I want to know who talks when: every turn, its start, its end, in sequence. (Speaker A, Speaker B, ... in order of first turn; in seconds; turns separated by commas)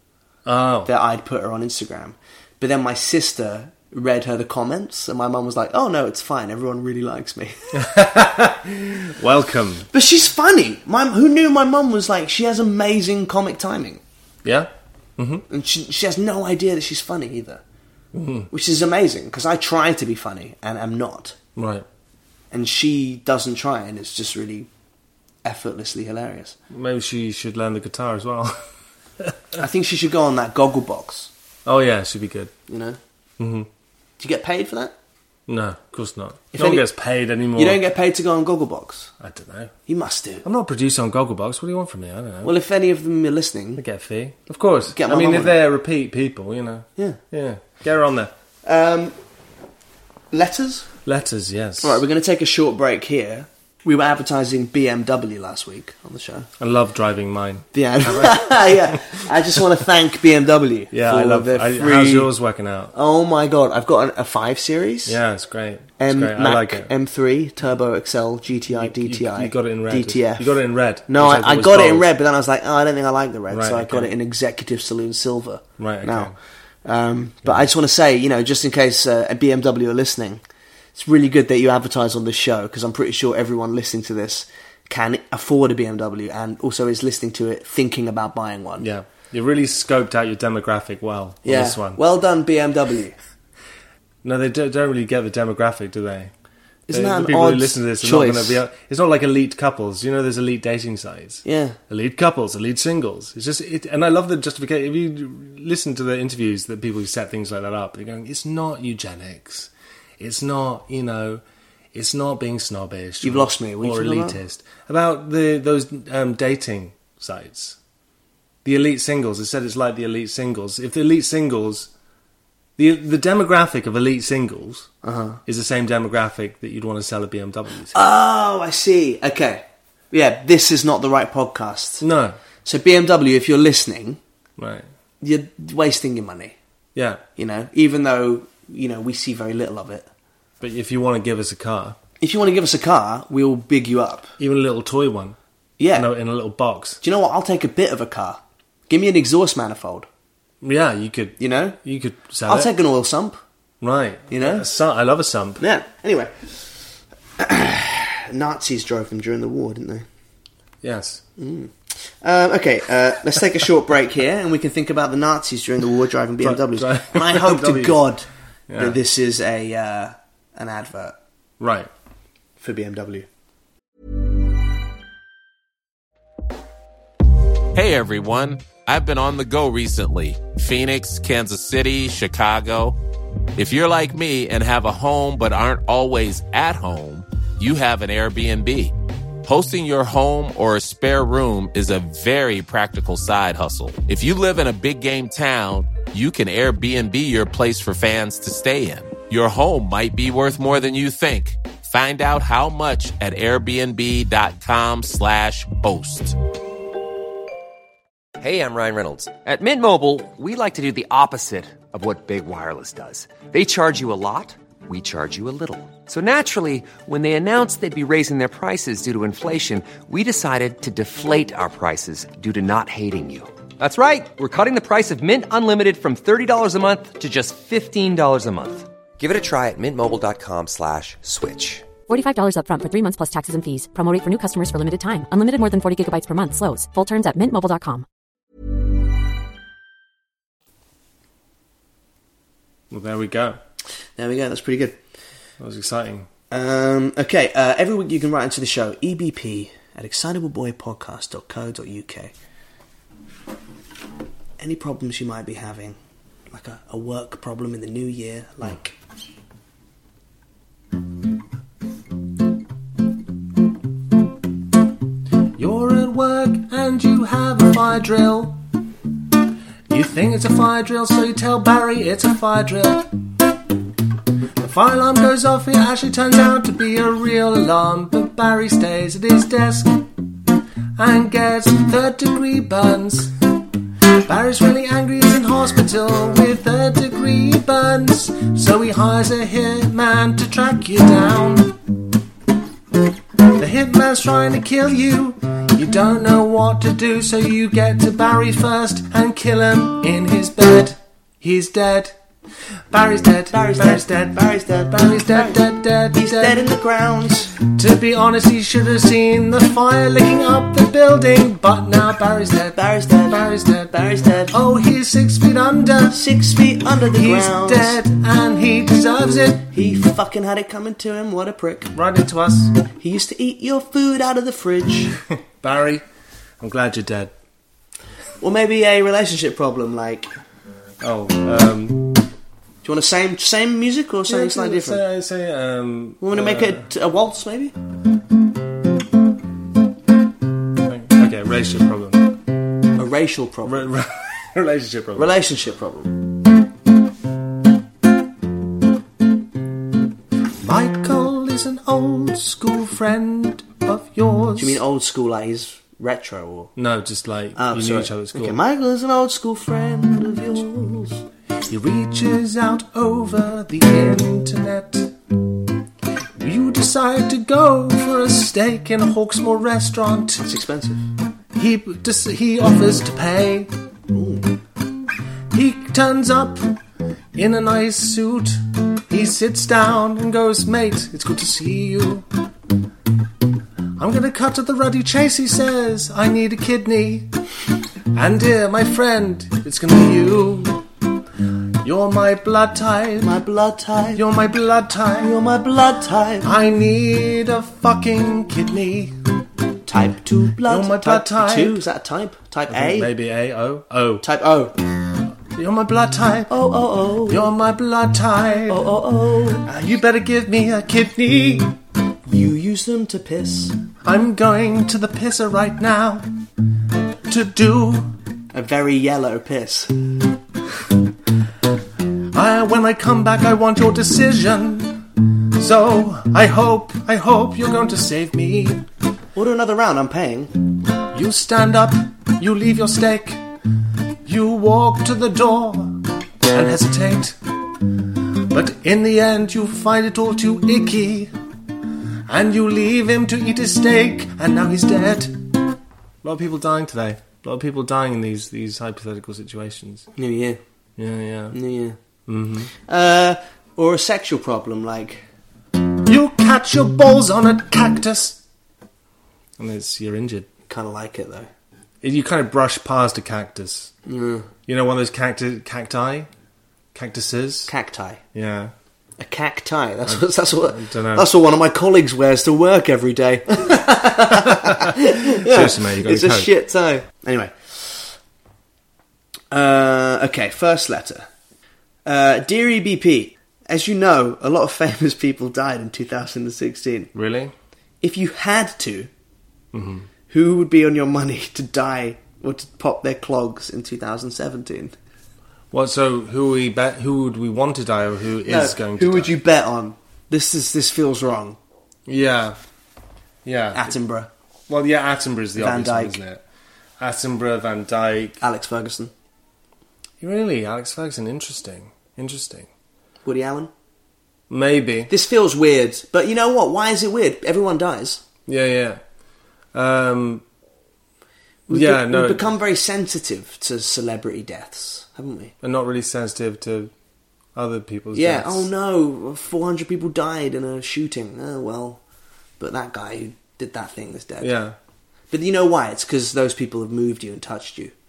Speaker A: 0.5-0.9, Speaker B: 0.9-7.9, Speaker A: 7.8-9.9, Speaker B: 9.9-14.0, Speaker A: 14.4-15.4, Speaker B: 15.5-17.6, Speaker A: 18.1-18.5, Speaker B: 18.5-21.4, Speaker A: 21.6-21.9, Speaker B: 22.5-24.7, Speaker B: 25.4-26.6, Speaker A: 26.7-28.6, Speaker B: 29.6-31.3, Speaker A: 31.6-32.5, Speaker B: 32.7-33.0, Speaker A: 33.4-33.7, Speaker B: 34.2-34.9, Speaker A: 35.5-37.8, Speaker B: 36.5-36.8, Speaker B: 37.6-39.1, Speaker A: 39.2-39.7, Speaker B: 39.9-40.5, Speaker A: 40.4-42.5, Speaker B: 42.4-43.8, Speaker A: 43.8-48.3, Speaker B: 44.9-45.6, Speaker B: 48.7-49.1, Speaker B: 50.3-50.9, Speaker A: 51.1-52.0, Speaker B: 51.8-56.5, Speaker A: 56.6-59.1, Speaker B: 57.7-62.3, Speaker A: 60.9-62.9, Speaker B: 62.9-65.2, Speaker A: 65.1-66.9, Speaker B: 66.0-70.6, Speaker A: 68.8-72.1, Speaker B: 71.1-76.3, Speaker A: 73.5-74.1, Speaker A: 75.8-76.3, Speaker B: 76.8-80.4, Speaker B: 81.0-88.9, Speaker A: 88.8-92.0, Speaker B: 91.5-93.1, Speaker A: 94.2-96.3, Speaker B: 96.9-98.6, Speaker A: 96.9-111.4, Speaker B: 101.5-101.8, Speaker A: 111.9-117.8, Speaker B: 113.2-114.4, Speaker A: 118.7-121.9, Speaker A: 122.8-124.9, Speaker B: 125.0-125.4, Speaker A: 125.5-128.0, Speaker B: 127.9-132.1, Speaker A: 132.0-132.4, Speaker B: 132.7-134.2, Speaker A: 134.6-134.9, Speaker B: 135.2-136.6, Speaker A: 136.9-137.2, Speaker B: 137.4-140.1, Speaker A: 140.6-142.0, Speaker B: 142.2-144.3, Speaker A: 144.4-145.4, Speaker B: 145.8-146.1, Speaker A: 145.9-147.0, Speaker B: 147.0-150.1, Speaker A: 150.6-152.7, Speaker B: 151.4-151.8, Speaker B: 152.5-153.4, Speaker A: 153.8-155.6, Speaker B: 154.3-154.7, Speaker B: 155.6-156.6, Speaker B: 157.4-160.1, Speaker A: 160.8-161.2, Speaker B: 161.4-171.2, Speaker A: 166.4-168.0, Speaker A: 168.7-169.0, Speaker A: 171.6-171.9, Speaker B: 172.6-173.3, Speaker C: 177.7-183.0, Speaker C: 183.6-206.4, Speaker D: 208.4-231.9, Speaker E: 232.1-238.1, Speaker A: 242.9-243.6, Speaker B: 244.2-245.0, Speaker A: 245.6-246.3, Speaker B: 246.5-252.3, Speaker B: 254.6-256.0, Speaker B: 256.5-258.9, Speaker A: 265.6-268.6, Speaker A: 269.9-273.1, Speaker A: 274.6-280.1, Speaker A: 281.0-283.4, Speaker A: 284.3-291.8, Speaker A: 293.6-302.1, Speaker A: 302.9-306.6, Speaker B: 303.5-305.6, Speaker B: 306.1-307.6, Speaker A: 307.6-316.3, Speaker B: 312.8-314.6, Speaker B: 316.1-318.0, Speaker A: 317.1-319.7, Speaker B: 319.7-321.9, Speaker A: 321.9-322.8, Speaker B: 323.0-325.2, Speaker A: 325.6-326.0, Speaker A: 326.6-327.3, Speaker B: 328.4-330.3, Speaker A: 331.0-332.2, Speaker B: 332.8-335.0, Speaker A: 334.3-336.9, Speaker B: 336.2-337.7, Speaker A: 340.9-342.4, Speaker B: 343.0-343.9, Speaker A: 343.7-345.3, Speaker B: 345.2-346.2, Speaker A: 350.6-354.8, Speaker B: 354.6-356.7, Speaker A: 356.8-358.6, Speaker B: 357.6-361.2, Speaker A: 361.7-365.1, Speaker A: 366.4-370.5, Speaker B: 370.4-371.1, Speaker A: 371.6-373.7, Speaker B: 374.1-374.5, Speaker A: 375.5-376.7, Speaker A: 377.4-382.2, Speaker A: 384.0-387.3, Speaker A: 388.1-390.9, Speaker A: 391.8-393.4, Speaker B: 393.2-394.2, Speaker A: 394.2-395.4, Speaker B: 395.2-396.5, Speaker A: 396.4-399.2, Speaker B: 399.9-403.1, Speaker A: 400.6-401.8, Speaker A: 402.7-404.2, Speaker B: 404.2-404.8, Speaker A: 405.5-406.6, Speaker B: 406.5-407.5, Speaker A: 407.3-408.8, Speaker B: 408.7-409.7, Speaker A: 409.6-411.8, Speaker B: 412.3-413.8, Speaker A: 414.0-416.3, Speaker A: 417.3-418.1, Speaker B: 418.5-419.9, Speaker A: 422.3-428.9, Speaker B: 429.4-430.5, Speaker A: 431.1-433.4, Speaker A: 434.3-437.4, Speaker A: 438.4-441.3, Speaker A: 442.3-445.4, Speaker A: 446.2-450.1, Speaker B: 450.2-450.6, Speaker A: 451.0-451.6, Speaker B: 451.5-452.0, Speaker A: 452.3-452.7, Speaker B: 452.8-455.2, Speaker A: 456.1-458.4, Speaker A: 459.6-460.5, Speaker B: 460.7-461.5, Speaker A: 462.0-463.9, Speaker B: 464.1-464.5, Speaker A: 464.7-466.3, Speaker A: 466.9-467.7, Speaker B: 467.7-468.2, Speaker A: 468.3-468.7, Speaker B: 469.2-478.1, Speaker A: 470.1-471.3, Speaker A: 474.6-476.5, Speaker B: 479.5-481.3, Speaker B: 482.1-487.1, Speaker A: 487.1-487.5, Speaker B: 488.0-489.1, Speaker A: 489.7-490.1, Speaker B: 490.3-494.9, Speaker A: 495.7-499.4, Speaker B: 498.5-501.6, Speaker A: 502.1-502.6, Speaker A: 503.4-503.9, Speaker B: 503.7-504.3, Speaker A: 504.7-506.4, Speaker B: 505.6-506.2, Speaker A: 507.0-508.4, Speaker B: 508.4-509.1, Speaker A: 510.2-512.7, Speaker B: 513.2-513.7, Speaker A: 514.5-515.1, Speaker B: 515.1-518.2, Speaker A: 518.5-519.0, Speaker A: 519.7-520.4, Speaker B: 521.7-525.5, Speaker A: 521.7-522.5, Speaker A: 525.6-526.9, Speaker A: 527.5-528.7, Speaker B: 528.1-532.0, Speaker B: 532.6-534.5, Speaker A: 534.4-534.8, Speaker B: 535.3-537.9